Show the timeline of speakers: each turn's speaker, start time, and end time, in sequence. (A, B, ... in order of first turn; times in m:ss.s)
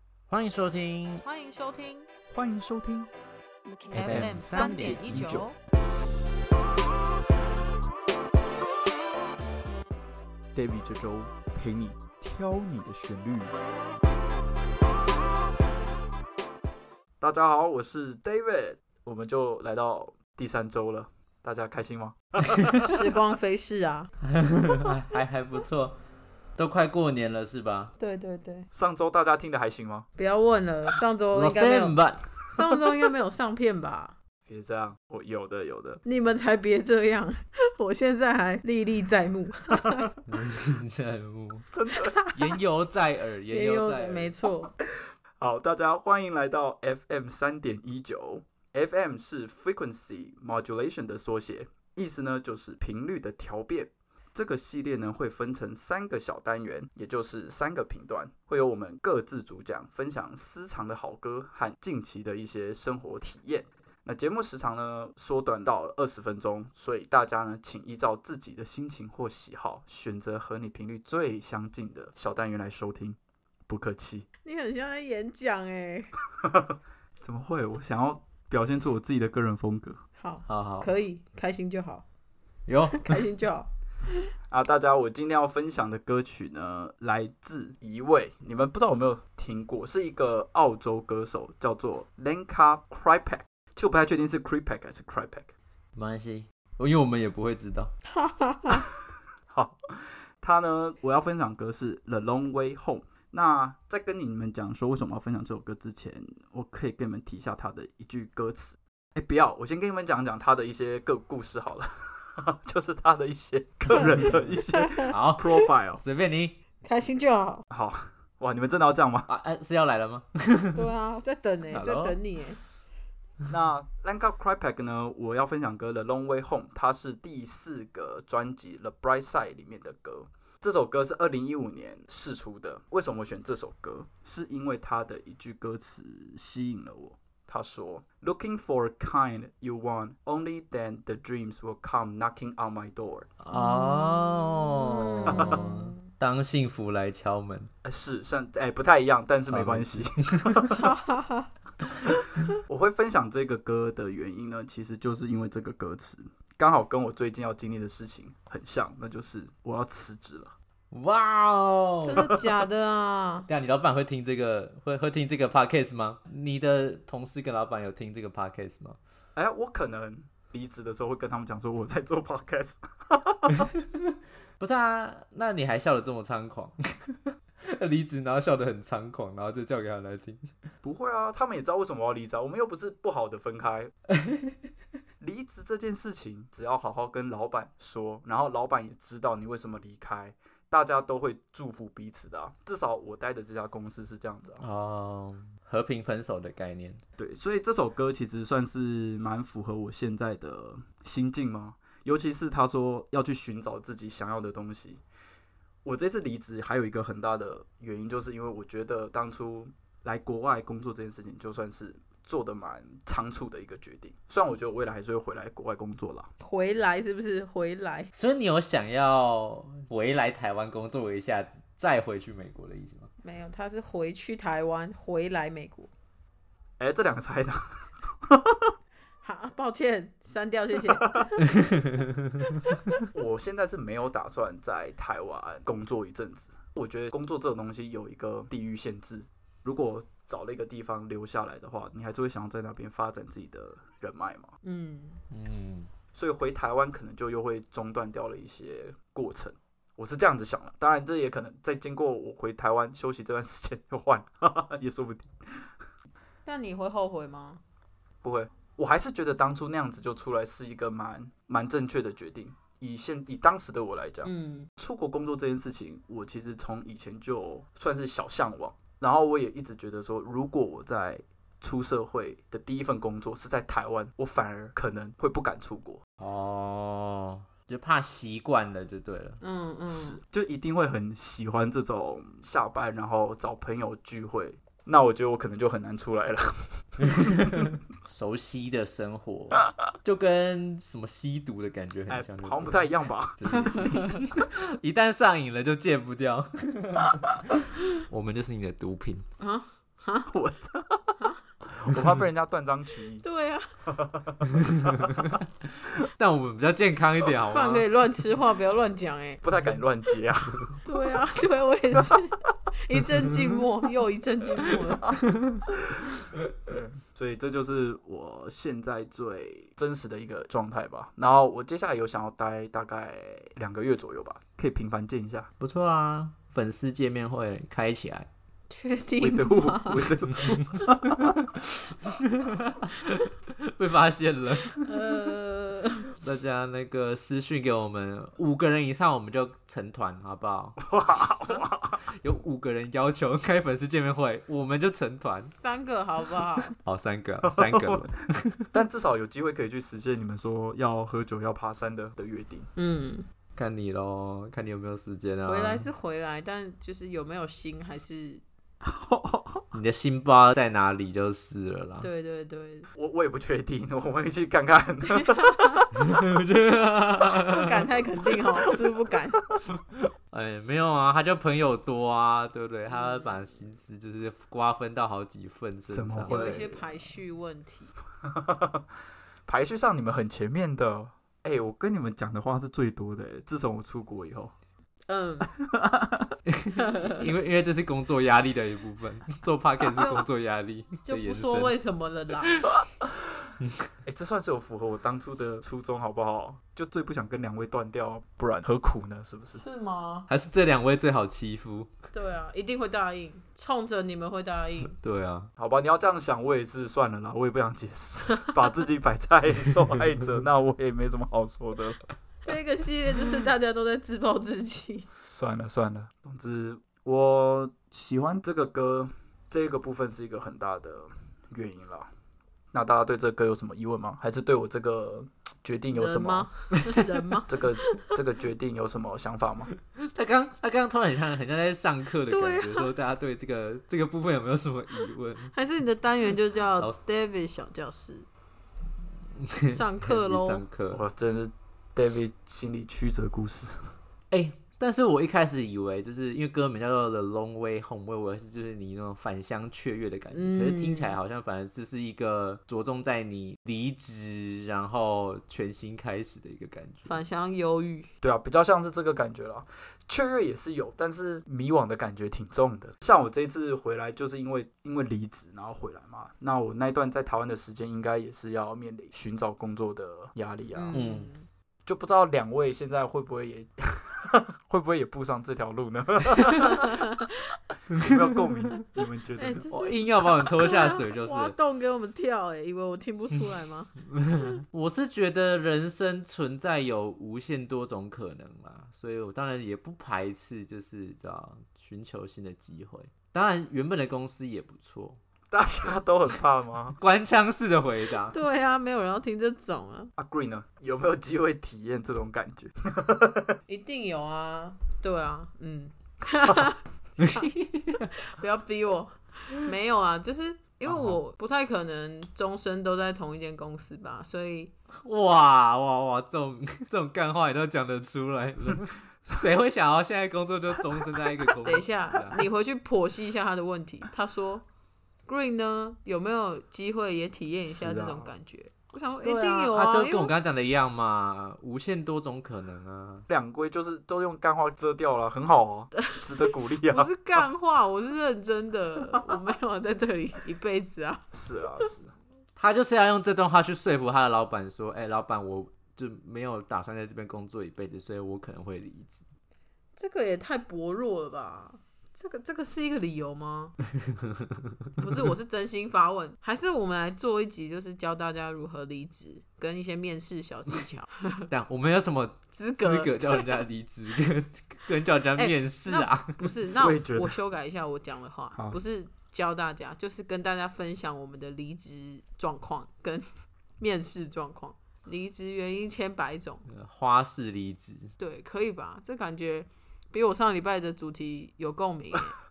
0:00.3-0:01.2 A
0:01.2-0:02.1 B
0:02.3-0:03.1 C
0:03.9-0:05.6 B
0:03.9-0:05.4 A
0:04.0-0:05.5 C
0:10.5-0:13.6 C
0:17.2-0:22.9 C
0:22.8-0:24.1 B
0:24.3-0:26.0 A
0:26.6-0:27.9 A
0:28.0-0:28.7 B
0:28.7-0:30.1 C
0:30.2-0:32.0 B
0:31.3-0:32.3 A
0:32.5-0:34.2 B
0:34.5-0:36.0 C
0:36.0-0:40.1 B
0:40.3-0:41.6 A
0:41.7-0:42.2 C
0:42.3-0:44.3 A
0:43.5-0:44.7 B
0:45.4-1:14.3 C
1:14.4-1:16.1 B
1:17.2-1:20.0 C
1:20.2-1:22.0 B
1:20.5-1:20.9 A
1:22.7-1:23.2 A
1:22.9-1:24.2 B
1:24.5-1:35.5 C
1:36.0-1:37.9 A
1:38.1-1:38.8 B
1:39.5-1:56.0 C
1:54.7-1:55.1 B
1:55.1-1:56.6 A
1:56.8-1:57.6 B
1:57.7-1:59.3 C
1:59.3-2:00.9 A
2:00.8-2:02.6 B
2:01.7-2:02.2 A
2:03.5-2:23.3 C
2:23.4-2:27.7 A
2:23.5-2:26.0 B
2:25.3-2:25.6 C
2:27.8-2:30.8 C
2:29.5-2:30.6 A
2:30.7-2:31.5 B
2:32.7-2:40.5 C
2:40.9-2:42.3 A
2:42.0-2:43.5 B
2:43.5-2:49.0 A
2:49.4-2:53.7 C
2:54.6-2:56.8 A
2:57.6-3:00.5 A
3:00.8-3:03.9 C
3:04.3-3:04.5 A
3:05.2-3:14.6 C
3:14.6-3:17.0 A
3:17.2-3:25.0 C
3:25.8-3:36.3 C
3:36.4-3:38.1 B
3:38.1-3:43.1 A
3:43.2-3:45.9 B
3:46.8-3:48.6 C
3:49.2-3:51.6 B
3:53.1-4:04.5 C
4:04.6-4:05.2 B
4:05.3-4:05.9 A
4:06.1-4:15.7 C
4:16.4-4:17.6 B
4:18.2-4:36.0 C
4:24.2-4:24.7 B
4:36.2-4:39.4 A
4:39.4-4:40.2 B
4:39.9-4:47.2 C
4:47.2-4:52.8 A
4:52.1-4:53.9 C
4:53.4-4:57.5 A
4:53.5-4:54.0 B
4:58.0-4:59.3 A
4:59.4-5:00.3 B
5:00.3-5:01.2 C
5:01.7-5:03.2 C
5:03.2-5:03.7 B
5:03.9-5:05.1 C
5:04.8-5:05.3 A
5:06.2-5:07.8 A
5:07.5-5:09.4 B
5:09.4-5:10.7 C
5:10.8-5:15.1 B
5:16.7-5:25.5 C
5:25.6-5:28.3 A
5:28.7-5:30.1 B
5:29.2-5:31.4 C
5:32.0-5:35.2 A
5:34.8-5:36.1 B
5:36.2-5:40.9 A
5:40.8-5:42.0 C
5:42.1-5:45.6 A
5:45.4-5:46.7 B
5:46.7-5:48.5 A
5:47.4-5:48.1 C
5:48.7-5:52.7 C
5:52.8-5:53.2 B
5:53.6-5:55.9 A
5:55.4-5:58.4 B
5:58.8-5:59.7 C
5:59.7-6:02.1 A
6:02.0-6:02.9 B
6:03.0-6:05.9 C
6:05.2-6:05.8 B
6:06.0-6:07.8 A
6:07.4-6:09.4 B
6:10.3-6:17.1 A
6:12.9-6:13.5 B
6:15.9-6:16.8 C
6:16.2-6:17.9 B
6:18.2-6:18.8 C
6:19.5-6:24.5 C
6:25.1-6:25.5 B
6:25.6-6:26.3 C
6:26.5-6:31.8 A
6:26.8-6:27.2 B
6:30.0-6:30.2 B
6:31.0-6:32.6 B
6:34.0-6:39.6 C
6:39.5-6:40.3 B
6:40.3-6:41.9 A
6:42.1-6:44.9 B
6:44.9-6:45.5 A
6:45.6-6:52.0 C
6:52.4-6:55.1 B
6:55.3-7:02.1 C
7:02.7-7:06.5 C
7:05.9-7:08.0 B
7:07.5-7:09.7 C
7:10.1-7:15.5 A
7:12.3-7:12.9 B
7:15.5-7:18.3 B
7:16.8-7:17.0 A
7:19.4-7:21.0 A
7:19.7-7:20.6 B
7:20.9-7:23.9 C
7:24.3-7:37.2 A
7:30.3-7:31.2 B
7:37.1-7:38.1 B
7:38.2-7:51.0 C
7:50.7-7:51.5 B
7:50.9-7:51.3 A
7:51.9-7:57.1 C
7:58.0-7:59.7 C
7:58.0-7:58.3 A
7:59.4-8:04.6 B
7:59.6-8:01.6 A
8:04.3-8:15.2 A
8:15.5-8:17.0 C
8:17.0-8:18.4 A
8:18.3-8:20.1 B
8:20.2-8:23.4 C
8:23.7-8:34.7 B
8:30.9-8:31.2 C
8:35.0-8:42.4 A
8:41.6-8:44.6 B
8:45.3-8:50.3 B
8:47.6-8:48.3 C
8:49.2-8:53.3 A
8:53.3-8:57.4 C
8:56.8-9:01.3 B
9:01.3-9:02.1 C
9:02.6-9:09.2 A
9:10.0-9:13.8 B
9:15.0-9:21.5 B
9:21.5-9:26.5 A
9:22.5-9:23.6 B
9:25.4-9:33.3 B
9:26.8-9:27.4 C
9:28.6-9:28.8 C
9:33.8-9:36.7 B
9:36.7-9:38.1 A
9:38.2-9:42.4 B